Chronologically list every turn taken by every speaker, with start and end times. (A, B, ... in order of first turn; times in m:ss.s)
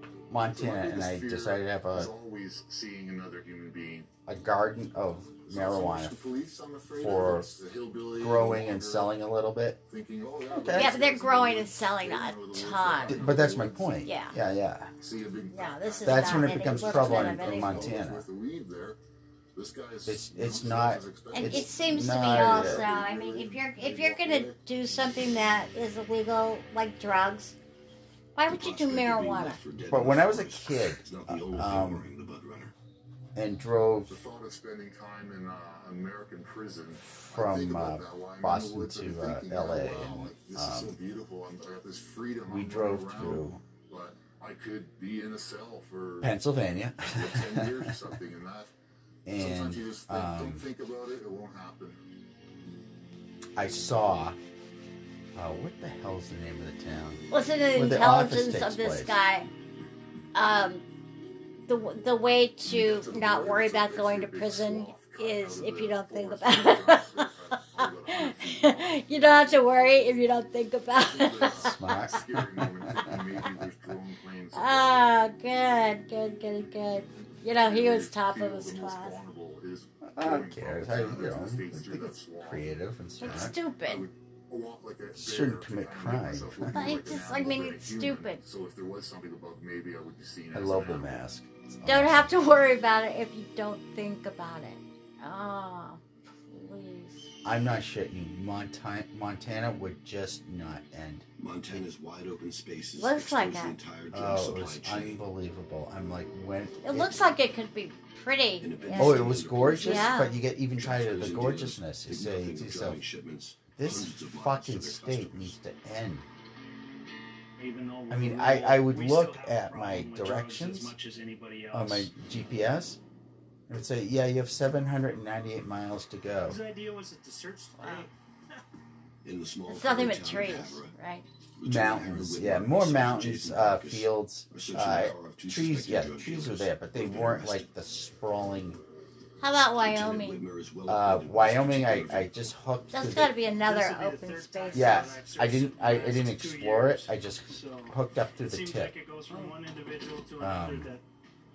0:00.3-0:02.1 A
0:00.5-0:04.1 B
0:04.3-0:06.3 A
0:05.4-0:09.2 B
0:07.0-0:07.5 A
0:08.2-0:09.8 A
0:09.9-0:14.1 B
0:10.5-0:10.9 A
0:10.7-0:13.4 C
0:13.1-0:14.9 A
0:14.0-0:14.4 C
0:15.0-0:19.0 B
0:15.5-0:18.0 C
0:16.0-0:18.2 A
0:19.6-0:24.6 B
0:20.1-0:22.9 A
0:21.3-0:27.6 C
0:28.4-0:29.6 C
0:28.5-0:32.7 D
0:29.9-0:32.1 A
0:33.4-0:34.2 A
0:34.1-0:46.3 B
0:37.1-0:41.0 A
0:42.5-0:43.6 A
0:46.2-0:47.9 A
0:47.1-0:48.7 B
0:49.3-0:50.6 A
0:49.3-0:52.0 B
0:53.6-0:54.4 A
0:55.4-0:59.2 A
0:57.3-0:59.5 C
1:00.3-1:00.8 C
1:01.7-1:12.0 C
1:02.6-1:09.8 B
1:11.0-1:15.1 B
1:11.7-1:13.2 A
1:14.5-1:19.2 C
1:17.5-1:22.7 B
1:20.1-1:23.6 A
1:23.2-1:24.1 C
1:23.2-1:31.2 B
1:25.2-1:26.8 A
1:26.7-1:28.4 C
1:30.5-1:32.4 A
1:31.9-1:37.3 C
1:37.4-1:41.8 A
1:41.4-1:45.2 D
1:43.0-1:43.8 C
1:44.1-1:47.3 A
1:46.8-1:50.4 C
1:48.6-1:50.1 D
1:48.9-1:53.0 A
1:50.8-1:55.6 D
1:53.8-1:56.3 A
1:57.6-2:02.1 E
1:58.1-2:00.9 A
2:01.7-2:03.0 A
2:03.7-2:06.6 A
2:06.4-2:08.1 E
2:07.8-2:08.1 C
2:09.2-2:11.0 D
2:09.7-2:11.2 C
2:11.6-2:17.7 D
2:11.6-2:18.8 A
2:19.4-2:20.5 C
2:19.8-2:22.5 D
2:20.9-2:23.4 A
2:22.9-2:25.1 C
2:23.5-2:31.0 E
2:24.7-2:28.9 A
2:30.4-2:30.9 A